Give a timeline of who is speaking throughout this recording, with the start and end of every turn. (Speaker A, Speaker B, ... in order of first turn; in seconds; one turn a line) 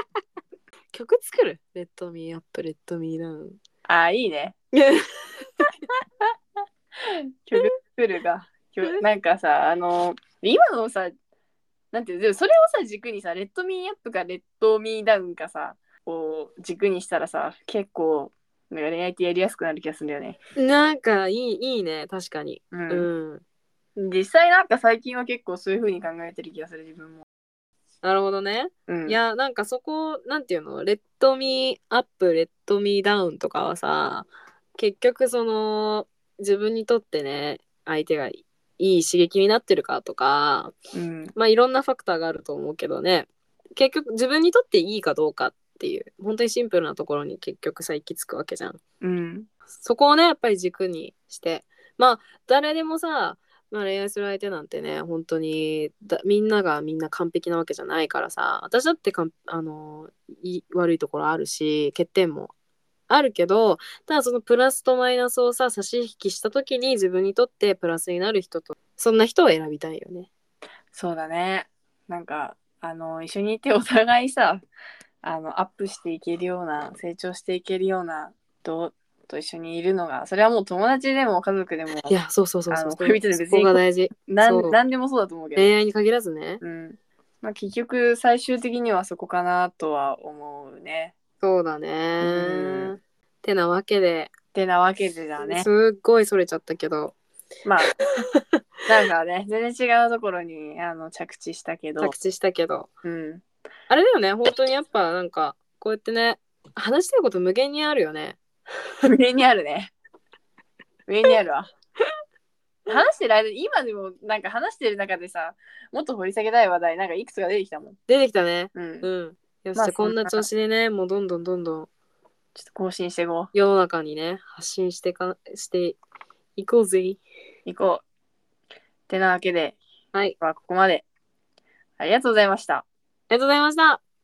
Speaker A: 0.9-3.6
Speaker B: 3.9-4.6
Speaker A: 4.7-5.7
Speaker B: 7.5-11.1
Speaker B: 11.9-20.4
Speaker A: 20.6-23.4
Speaker B: 22.7-23.1
Speaker B: 24.0-27.2
Speaker A: 28.0-40.8
Speaker B: 28.9-29.2
Speaker B: 40.9-41.3
Speaker A: 41.4-48.8
Speaker B: 49.0-49.5
Speaker A: 49.8-62.5
Speaker A: 63.1-70.3
Speaker B: 70.9-74.7
Speaker B: 75.2-82.2
Speaker A: 82.1-84.8
Speaker B: 82.7-85.7
Speaker A: 85.6-86.6
Speaker B: 86.6-91.2
Speaker A: 91.4-94.3
Speaker B: 92.2-93.0
Speaker B: 94.5-95.7
Speaker A: 95.4-97.2
Speaker B: 97.7-98.0
Speaker A: 98.3-98.6
Speaker B: 98.9-102.2
Speaker A: 102.0-102.9
Speaker B: 103.0-103.4
Speaker A: 103.9-108.4
Speaker B: 109.0-109.9
Speaker B: 111.1-111.7
Speaker B: 112.9-118.0
Speaker A: 118.1-121.9
Speaker B: 118.8-119.1
Speaker B: 119.8-120.5
Speaker B: 122.5-123.5
Speaker A: 123.5-126.0
Speaker A: 126.6-127.2
Speaker B: 127.7-128.0
Speaker B: 129.1-129.8
Speaker B: 130.4-131.1
Speaker B: 132.0-132.9
Speaker A: 133.3-134.0